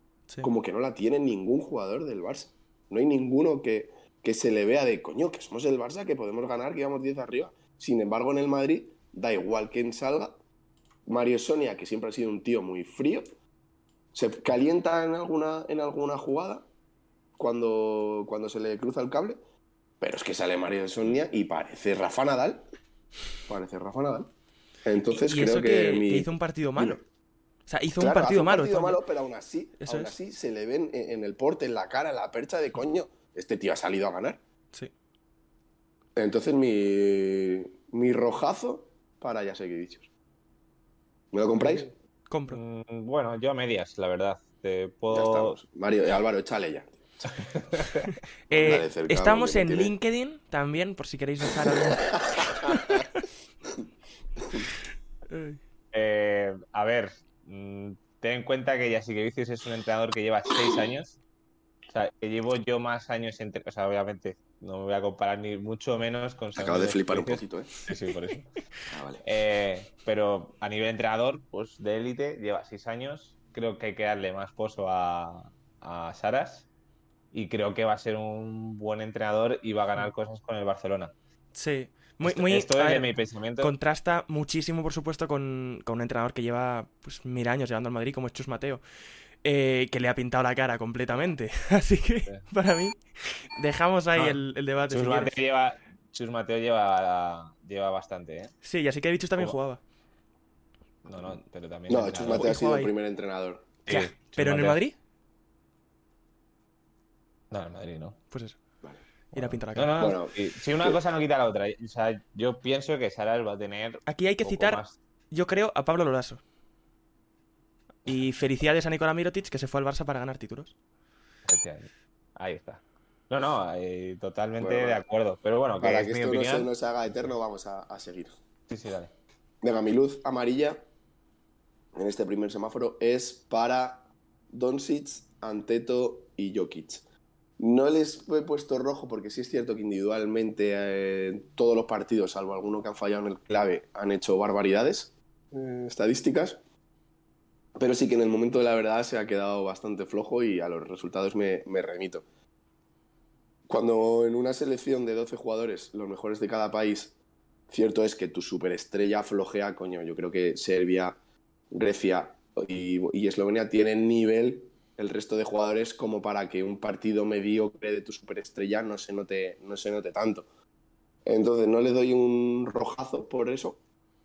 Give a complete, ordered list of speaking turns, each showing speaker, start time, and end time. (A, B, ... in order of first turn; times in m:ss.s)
0:00.4-0:10.4 A
0:11.1-0:13.3 A
0:14.1-0:16.6 A
0:17.4-0:19.4 A
0:20.0-0:22.7 A
0:23.5-0:24.3 A
0:24.8-0:27.0 A
0:25.1-0:27.0 B
0:27.7-0:29.0 B
0:28.0-0:34.4 A
0:29.8-0:30.1 B
0:36.2-0:40.1 A
0:41.3-0:41.9 A
0:42.3-0:42.6 B
0:42.5-0:45.6 C
0:45.1-0:47.3 A
0:47.4-0:48.1 C
0:48.1-0:53.2 B
0:48.5-0:49.9 A
0:52.0-0:52.7 A
0:55.3-0:55.6 B
0:55.9-1:01.2 C
1:01.9-1:08.5 C
1:06.6-1:07.7 A
1:08.9-1:09.2 A
1:09.2-1:16.7 C
1:17.3-1:21.1 C
1:21.6-1:28.8 B
1:22.2-1:23.7 C
1:29.4-1:35.4 B
1:34.2-1:38.6 C
1:38.6-1:39.8 B
1:41.0-1:42.5 C
1:41.9-1:43.8 A
1:42.3-1:42.9 B
1:43.9-1:44.8 C
1:43.9-1:45.0 B
1:47.5-1:48.2 C
1:48.3-1:48.6 B
1:49.3-1:50.1 B
1:49.4-1:55.0 C
1:50.0-1:51.0 A
1:54.1-1:56.4 B
1:58.1-2:00.8 B
2:01.4-2:06.7 C
2:04.6-2:05.0 A
2:05.8-2:08.3 A
2:08.7-2:09.1 C
2:09.6-2:10.8 A
2:12.0-2:17.0 A
2:17.6-2:26.6 A
2:27.8-2:32.2 A
2:33.7-2:37.2 A
2:37.7-2:41.2 A
2:41.7-2:50.5 A
2:51.3-2:53.8 A